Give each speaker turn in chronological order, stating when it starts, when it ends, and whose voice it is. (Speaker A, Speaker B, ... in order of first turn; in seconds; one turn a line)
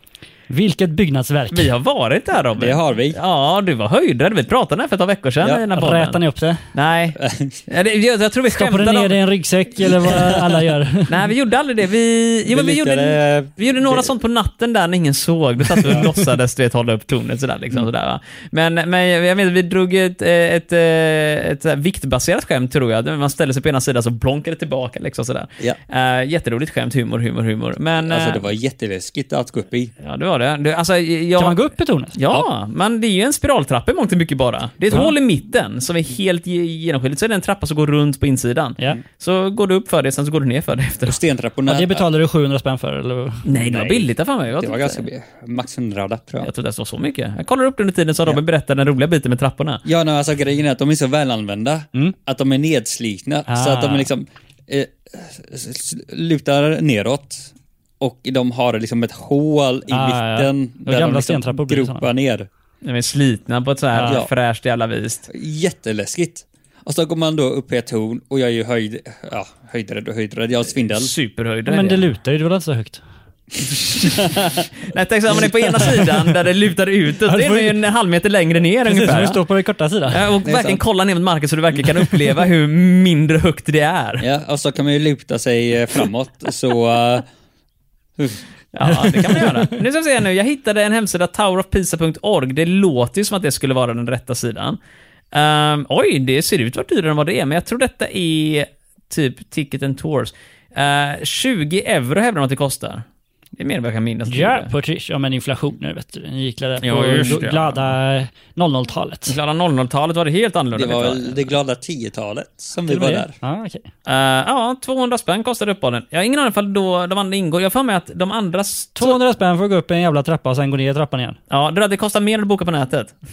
Speaker A: 0.5-1.7
Speaker B: 1.5-6.2
Speaker C: 2.6-3.2
Speaker A: 5.7-6.6
Speaker B: 6.7-9.2
Speaker C: 7.2-7.6
Speaker A: 8.5-11.2
Speaker B: 11.1-28.4
Speaker C: 12.5-14.1
Speaker C: 28.0-29.9
Speaker B: 30.0-31.6
Speaker A: 31.4-32.2
Speaker B: 32.1-41.2
Speaker C: 41.0-42.0
Speaker A: 41.7-43.5
Speaker B: 43.4-45.0
Speaker C: 43.5-46.5
Speaker B: 46.4-49.8
Speaker C: 49.8-62.5
Speaker A: 53.5-54.1
Speaker A: 59.9-62.0
Speaker B: 62.8-65.3
Speaker C: 64.0-64.3
Speaker C: 65.3-71.1
Speaker B: 70.9-72.0
Speaker A: 71.7-73.0
Speaker B: 73.9-79.4
Speaker C: 74.0-74.6
Speaker C: 75.3-76.0
Speaker A: 77.2-77.8
Speaker A: 78.8-80.2
Speaker B: 80.1-84.2
Speaker C: 80.4-80.8
Speaker C: 84.2-87.3
Speaker B: 88.7-94.8
Speaker A: 89.0-89.7
Speaker B: 95.3-103.0
Speaker B: 103.6-104.7
Speaker A: 104.3-109.3
Speaker B: 106.8-107.9
Speaker B: 109.3-111.5
Speaker C: 110.7-113.3
Speaker A: 112.8-113.9
Speaker B: 114.0-119.2
Speaker A: 119.0-121.4
Speaker B: 121.5-123.1